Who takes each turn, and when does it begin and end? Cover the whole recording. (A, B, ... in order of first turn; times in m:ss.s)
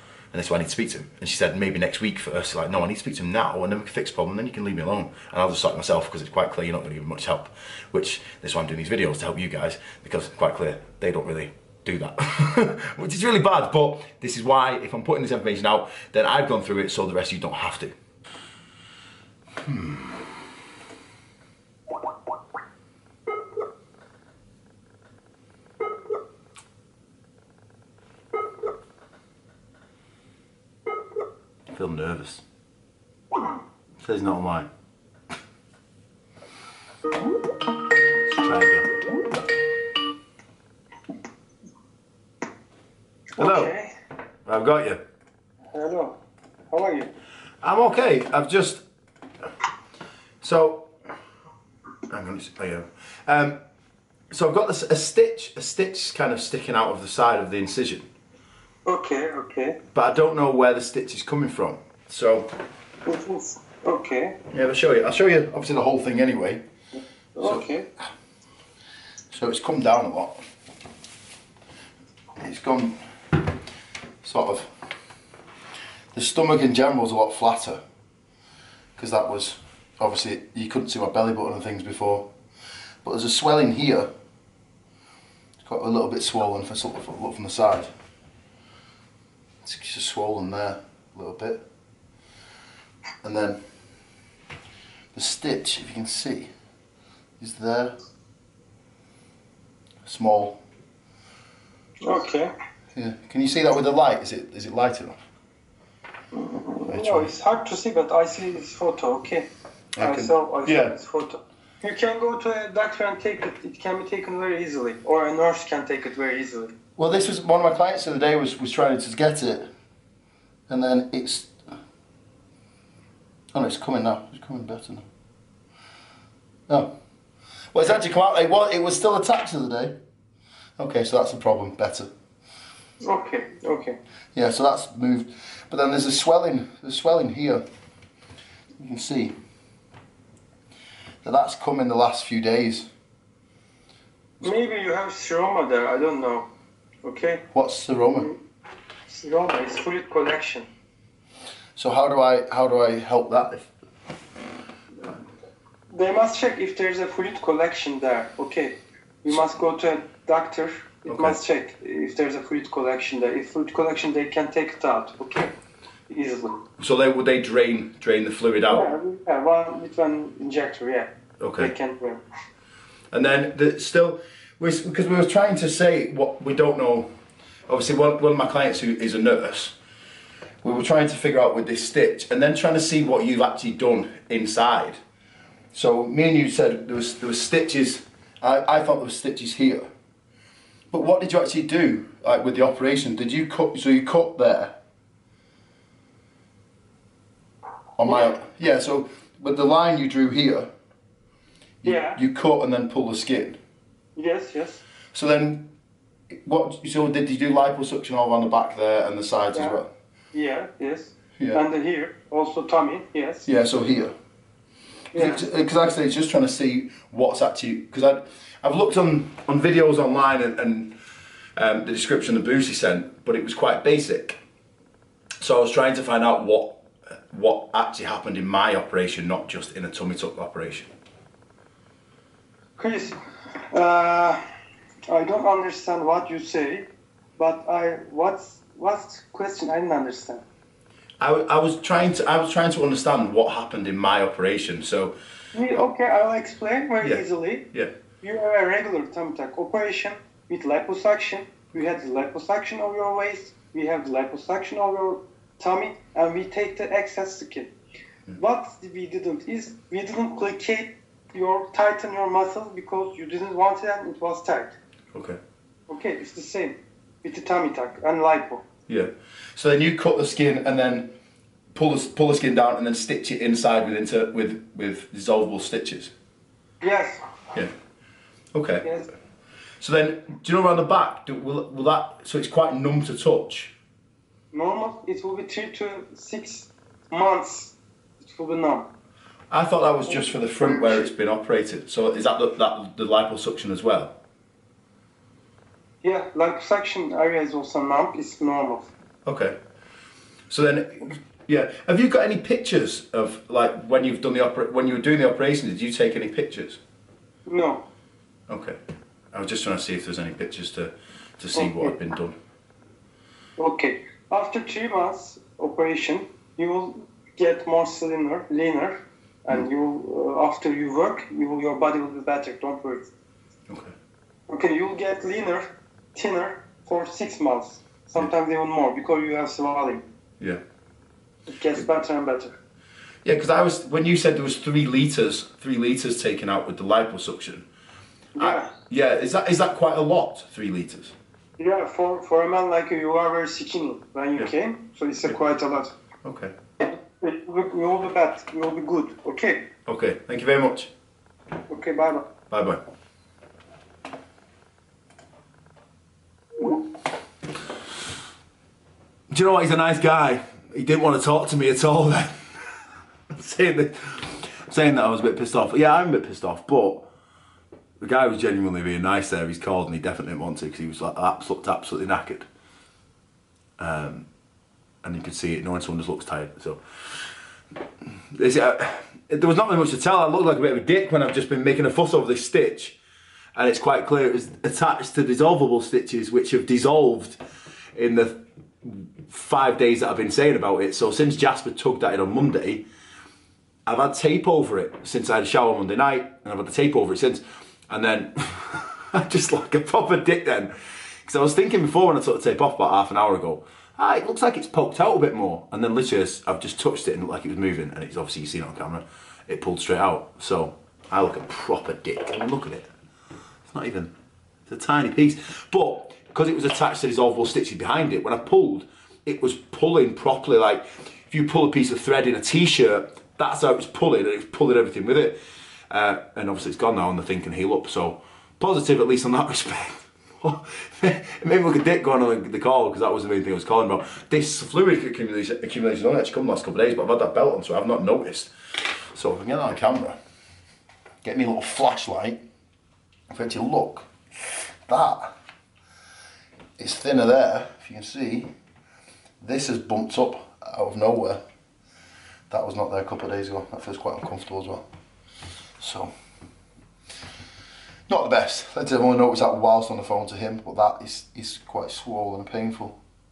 0:00.3-0:17.9 A
0:19.6-0:20.2 A
0:31.7-0:32.4 A
0:34.0-0:34.7 A
0:38.3-0:38.9 A
0:43.4-0:43.9 B
0:43.4-0:43.7 A
0:44.5-0:45.0 A
0:45.7-0:46.2 B
0:46.7-0:47.1 B
0:47.6-0:48.8 A
0:50.4-0:50.9 A
0:52.1-0:53.6 A
0:54.3-0:58.1 A
0:58.8-0:59.8 B
0:59.9-1:02.5 A
1:03.0-1:04.4 B
1:04.5-1:06.6 A
1:07.3-1:07.9 B
1:09.3-1:10.4 A
1:12.4-1:13.0 A
1:14.2-1:14.7 A
1:16.1-1:17.8 A
1:19.0-1:22.3 A
1:23.0-1:24.1 A
1:25.6-1:27.9 A
1:29.6-1:31.6 A
1:33.2-1:33.6 A
1:35.1-1:36.5 A
1:37.4-1:37.9 A
1:40.0-1:40.6 A
1:42.0-1:42.5 B
1:42.9-1:45.2 A
1:46.4-1:56.7 B
1:46.8-1:47.3 A
1:49.9-1:51.0 A
1:57.0-1:59.7 A
2:00.7-2:01.6 A
2:03.5-2:05.0 A
2:06.7-2:06.9 A
2:07.7-2:09.9 A
2:10.8-2:12.1 A
2:13.0-2:14.0 B
2:14.3-2:17.6 A
2:18.8-2:19.3 A
2:21.2-2:22.9 A
2:24.4-2:26.5 B
2:27.0-2:27.4 B
2:27.5-2:28.3 A
2:29.1-2:30.7 B
2:31.8-2:33.7 A
2:35.9-2:45.5 B
2:41.1-2:41.4 A
2:46.1-2:46.6 B
2:46.8-2:48.9 A
2:48.7-2:52.2 B
2:51.4-2:51.7 A
2:53.1-2:57.1 A
2:57.7-2:59.8 A
3:00.6-3:05.0 A
3:05.7-3:09.9 A
3:10.9-3:14.8 A
3:18.0-3:20.7 A
3:18.1-3:18.3 B
3:21.8-3:23.6 A
3:21.8-3:22.2 B
3:24.2-3:24.8 B
3:25.1-3:25.7 A
3:26.3-3:29.9 A
3:29.5-3:29.8 B
3:30.3-3:33.5 B
3:33.4-3:34.1 A
3:35.1-3:35.5 B
3:35.1-3:41.0 A
3:41.6-3:44.4 A
3:45.4-3:50.9 A
3:52.8-3:53.2 B
3:53.7-3:54.4 B
3:55.1-3:56.9 B
3:57.4-4:00.4 B
4:01.2-4:05.1 A
4:05.5-4:07.7 B
4:07.0-4:07.9 A
4:08.2-4:17.7 B
4:18.4-4:24.8 B
4:25.1-4:25.4 A
4:25.9-4:28.6 B
4:28.9-4:31.1 A
4:31.7-4:36.1 A
4:36.8-4:37.2 B
4:38.5-4:38.9 A
4:39.8-4:43.7 A
4:44.5-4:48.9 B
4:49.5-4:54.2 A
4:50.1-4:51.1 B
4:56.0-4:58.9 B
4:59.2-4:59.5 A
5:00.5-5:06.8 A
5:07.4-5:07.8 B
5:08.5-5:08.8 A
5:09.3-5:12.4 A
5:11.6-5:11.9 B
5:13.6-5:23.1 B
5:24.5-5:30.0 B
5:31.5-5:32.6 B
5:33.2-5:37.7 A
5:38.4-5:38.7 B
5:38.4-5:41.1 A
5:41.6-5:45.9 B
5:46.2-5:46.5 A
5:46.8-5:49.7 B
5:49.8-5:50.9 A
5:51.7-5:52.3 B
5:52.5-5:52.8 A
5:59.3-6:02.4 A
6:03.3-6:07.1 A
6:08.0-6:12.5 A
6:13.8-6:14.3 A
6:15.0-6:16.8 A
6:18.3-6:23.0 A
6:23.6-6:27.4 A
6:27.9-6:32.8 A
6:33.8-6:40.7 A
6:41.2-6:52.9 A
6:53.7-6:54.1 A
6:54.7-7:05.4 A
7:05.9-7:18.5 A
7:19.1-7:20.2 A
7:21.2-7:22.4 A
7:23.3-7:24.1 A
7:24.9-7:25.3 A
7:26.8-7:28.5 A
7:29.4-7:31.4 A
7:32.5-7:34.8 A
7:35.8-7:36.1 A
7:38.1-7:43.0 A